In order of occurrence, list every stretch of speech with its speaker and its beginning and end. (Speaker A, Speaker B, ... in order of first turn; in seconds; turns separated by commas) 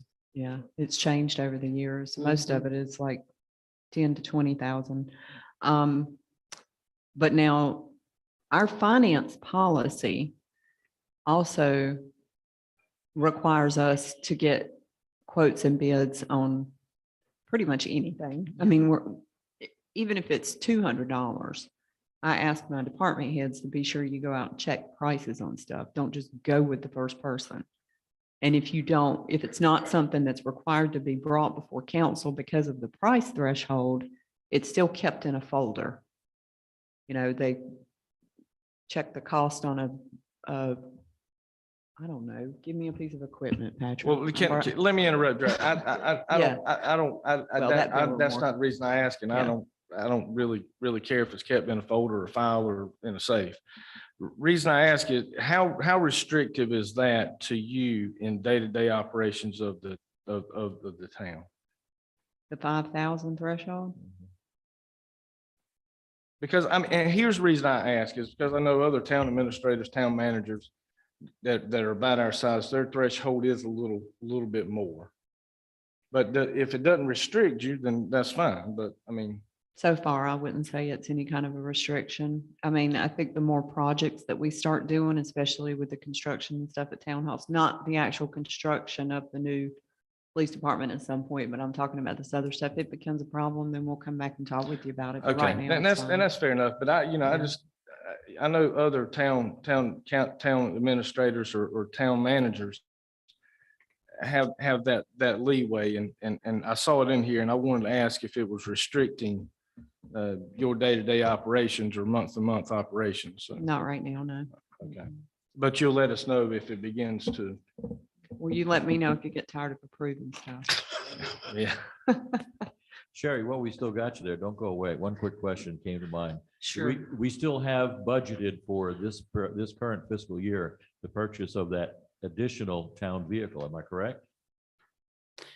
Speaker A: 0.3-3.2, Speaker A: 3.9-6.2, Speaker A: 7.2-7.9, Speaker A: 8.5-10.3, Speaker A: 11.3-12.1, Speaker A: 13.2-16.7, Speaker A: 17.5-21.7, Speaker A: 22.2-27.7, Speaker A: 28.4-36.0, Speaker A: 37.1-37.8, Speaker A: 38.9-40.8, Speaker A: 42.0-44.8, Speaker B: 44.0-53.6, Speaker A: 46.3-46.6, Speaker A: 47.6-48.5, Speaker B: 54.2-61.5, Speaker A: 62.5-64.0, Speaker B: 66.4-70.7, Speaker B: 71.4-75.1, Speaker B: 76.1-79.4, Speaker A: 79.8-89.7, Speaker A: 90.3-96.3, Speaker B: 95.2-102.8, Speaker B: 104.2-109.5, Speaker B: 110.1-113.7, Speaker A: 113.6-114.5, Speaker B: 114.8-117.6, Speaker A: 118.4-120.8, Speaker B: 121.5-121.8, Speaker C: 123.1-134.2, Speaker A: 126.6-127.0